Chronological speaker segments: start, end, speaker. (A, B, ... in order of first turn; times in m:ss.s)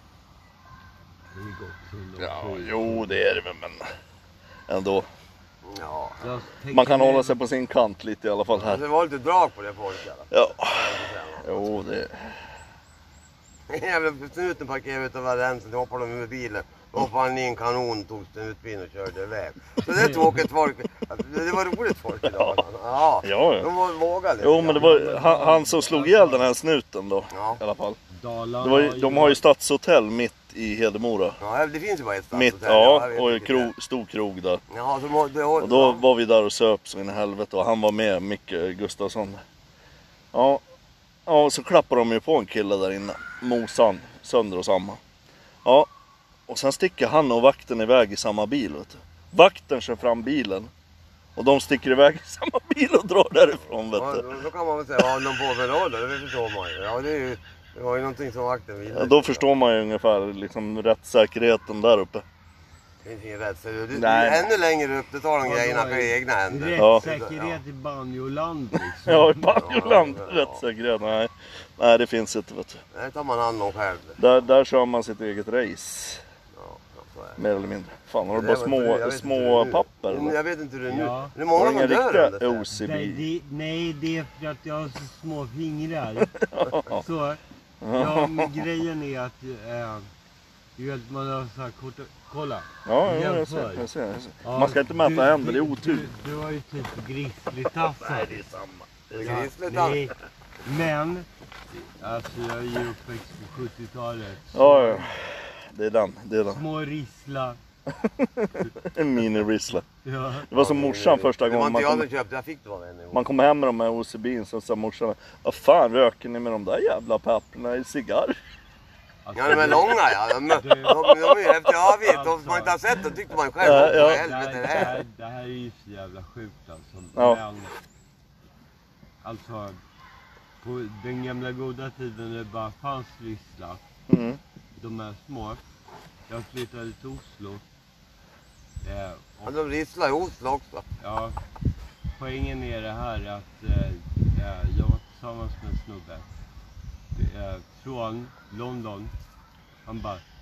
0:01.3-0:03.2 A
0:02.2-0:03.9 B
0:04.7-0:05.1 B
0:05.6-0:06.3 C
0:06.2-0:07.4 A
0:06.7-0:08.8 B
0:08.6-0:11.8 C
0:10.3-0:12.4 B
0:13.7-0:24.9 C
0:19.9-0:20.3 A
0:22.3-0:22.6 B
0:23.2-0:23.7 B
0:24.4-0:28.0 B
0:24.8-0:26.5 A
0:27.3-0:27.6 C
0:28.1-0:29.4 A
0:28.6-0:31.4 B
0:31.4-0:33.7 C
0:32.3-0:34.6 B
0:34.7-0:36.0 C
0:35.6-0:39.4 B
0:40.3-0:40.6 B
0:41.2-0:45.0 B
0:46.5-0:50.7 B
0:51.4-0:54.2 B
0:53.9-0:59.4 C
0:58.9-1:02.2 B
1:03.0-1:07.6 C
1:03.9-1:04.5 B
1:05.4-1:09.8 A
1:06.8-1:07.0 B
1:09.0-1:12.8 B
1:09.6-1:10.6 C
1:12.9-1:14.2 C
1:14.2-1:16.2 B
1:16.5-1:17.4 C
1:17.4-1:20.4 B
1:18.3-1:22.7 C
1:20.9-1:21.3 A
1:21.5-1:23.2 B
1:22.7-1:26.3 A
1:26.2-1:27.0 B
1:26.9-1:27.4 A
1:27.8-1:28.6 B
1:27.9-1:30.1 A
1:30.8-1:33.8 A
1:32.8-1:36.1 B
1:34.4-1:38.3 A
1:37.8-1:39.4 B
1:39.1-1:40.0 C
1:39.2-1:45.1 A
1:44.5-1:46.6 B
1:46.4-1:47.6 A
1:47.9-1:49.8 B
1:50.0-1:50.5 A
1:50.5-1:52.0 B
1:50.5-1:53.2 C
1:53.1-1:58.4 B
1:59.2-1:59.9 A
1:59.3-2:05.0 C
2:00.5-2:01.1 A
2:01.0-2:01.7 B
2:02.0-2:02.8 A
2:03.6-2:04.2 B
2:03.6-2:07.7 A
2:07.2-2:07.4 B
2:09.2-2:09.8 A
2:10.6-2:13.8 A
2:14.1-2:14.4 B
2:14.8-2:15.6 A
2:16.3-2:17.6 A
2:18.8-2:19.5 A
2:19.4-2:20.8 C
2:21.0-2:21.4 A
2:22.2-2:26.3 A
2:27.1-2:29.1 A
2:29.8-2:30.2 A